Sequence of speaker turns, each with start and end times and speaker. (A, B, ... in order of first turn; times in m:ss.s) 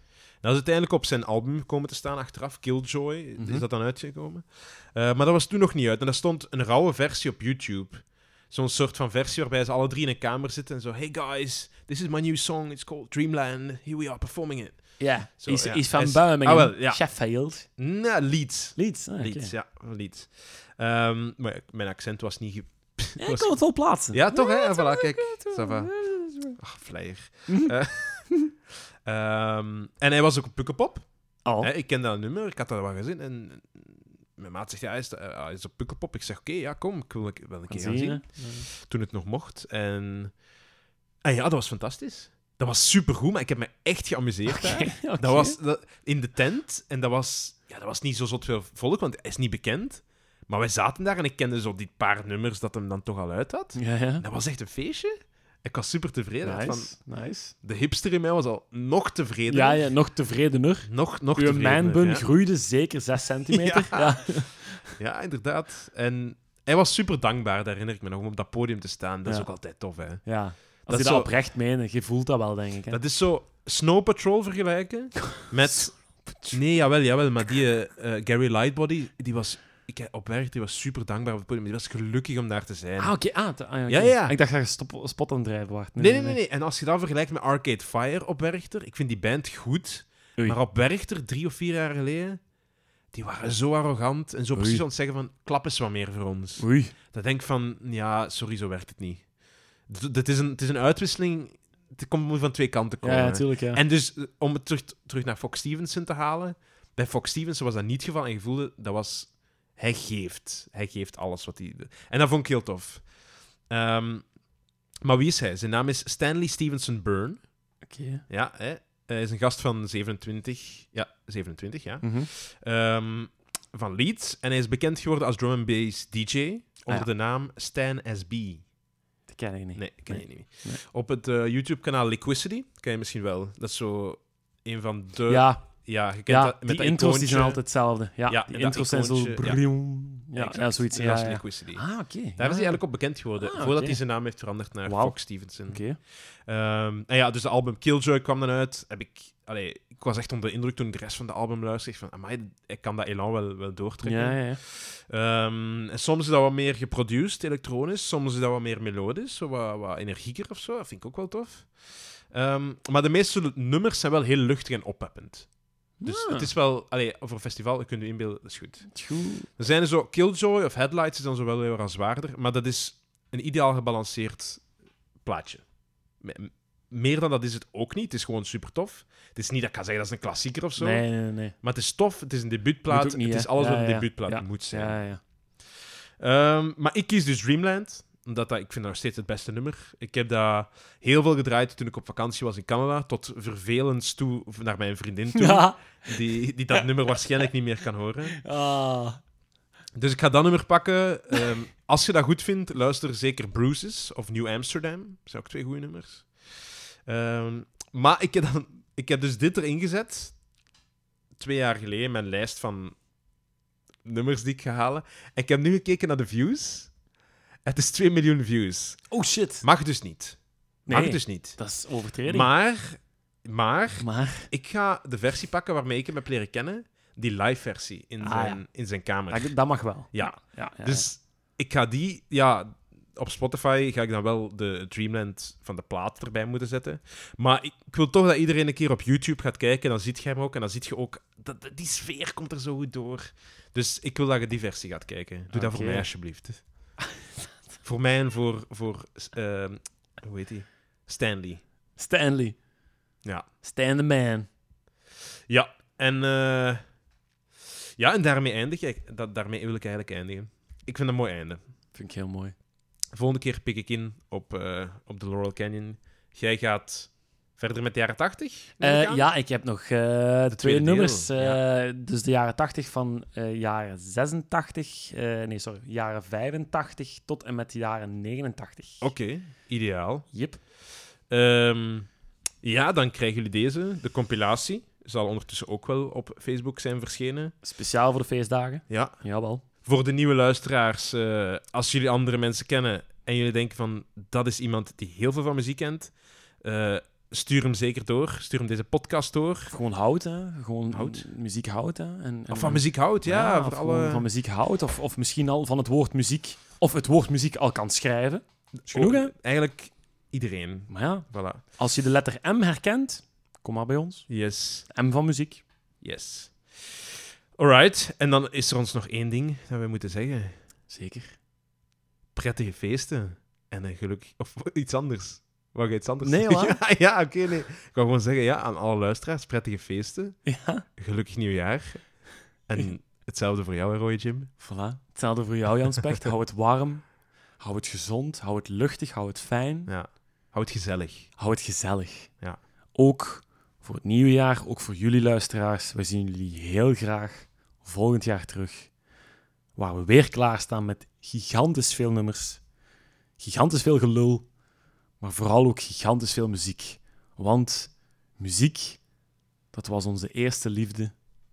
0:00.4-0:17.1 A
0:03.4-0:03.6 B
0:15.0-0:17.6 B
0:17.7-0:23.6 A
0:18.8-0:19.5 B
0:23.2-0:26.6 B
0:24.1-0:25.9 A
0:26.5-0:28.4 A
0:27.5-0:27.7 B
0:29.0-0:31.1 A
0:31.4-0:31.7 B
0:31.6-0:40.3 A
0:37.7-0:38.7 B
0:41.2-0:55.1 A
0:44.5-0:45.6 B
0:53.8-0:54.2 B
0:55.6-0:56.9 A
0:56.4-0:57.5 B
0:57.6-0:59.8 A
0:59.5-1:04.9 B
1:00.8-1:02.2 A
1:03.5-1:04.2 A
1:05.0-1:10.3 A
1:10.2-1:13.0 B
1:10.9-1:11.3 A
1:12.9-1:23.1 A
1:15.6-1:16.6 B
1:23.0-1:26.4 B
1:23.9-1:24.3 A
1:26.0-1:32.4 A
1:33.1-1:39.3 A
1:34.5-1:34.8 B
1:36.6-1:36.9 B
1:39.9-1:53.1 A
1:43.0-1:43.8 B
1:53.7-1:54.3 A
1:55.0-1:57.5 A
1:57.8-1:58.2 B
1:58.3-2:08.6 A
2:02.0-2:02.3 B
2:09.3-2:10.8 B
2:09.8-2:17.6 A
2:15.3-2:15.7 B
2:16.2-2:22.8 B
2:18.3-2:19.6 A
2:20.3-2:25.9 A
2:23.4-2:24.0 B
2:24.8-2:26.0 B
2:26.4-2:45.5 A
2:34.0-2:34.6 B
2:46.0-2:46.5 B
2:46.0-2:48.9 A
2:48.9-2:49.5 B
2:49.6-2:54.6 A
2:55.2-2:55.6 A
2:56.2-3:01.0 A
3:00.8-3:01.5 B
3:01.6-3:05.0 A
3:02.9-3:05.2 B
3:06.2-3:18.4 A
3:15.3-3:16.0 B
3:18.4-3:19.2 B
3:20.0-3:26.3 A
3:27.0-3:30.4 A
3:31.4-3:33.0 A
3:34.0-3:36.9 A
3:37.6-3:39.1 A
3:39.1-3:39.6 B
3:39.6-3:41.6 A
3:40.9-3:42.5 B
3:42.2-3:49.6 A
3:44.0-3:44.5 B
3:48.2-3:48.6 B
3:49.3-3:51.1 B
3:50.1-4:06.6 A
4:05.5-4:06.1 B
4:07.8-4:11.6 A
4:12.0-4:12.6 B
4:13.6-4:14.5 B
4:15.5-4:16.8 A
4:18.0-4:21.6 A
4:21.9-4:22.5 B
4:23.1-4:29.3 A
4:28.8-4:39.1 B
4:30.5-4:31.6 A
4:39.0-4:40.3 A
4:40.3-4:40.6 B
4:41.3-4:42.1 A
4:42.6-4:47.5 A
4:47.6-4:49.6 B
4:48.9-4:49.1 A
4:49.8-4:59.7 A
4:59.7-5:09.3 B
5:00.9-5:01.3 A
5:02.5-5:04.3 A
5:08.8-5:11.6 A
5:10.9-5:14.3 B
5:14.3-5:14.9 A
5:14.9-5:15.6 B
5:16.0-5:20.5 A
5:20.9-5:21.4 B
5:22.3-5:34.5 A
5:26.2-5:26.8 B
5:30.4-5:30.8 B
5:34.6-5:37.1 B
5:37.6-5:39.9 B
5:39.9-5:41.3 A
5:41.4-5:42.3 B
5:42.9-5:48.9 B
5:49.8-5:52.6 B
5:53.4-5:54.5 B
5:55.2-5:59.0 B
5:59.7-6:01.1 B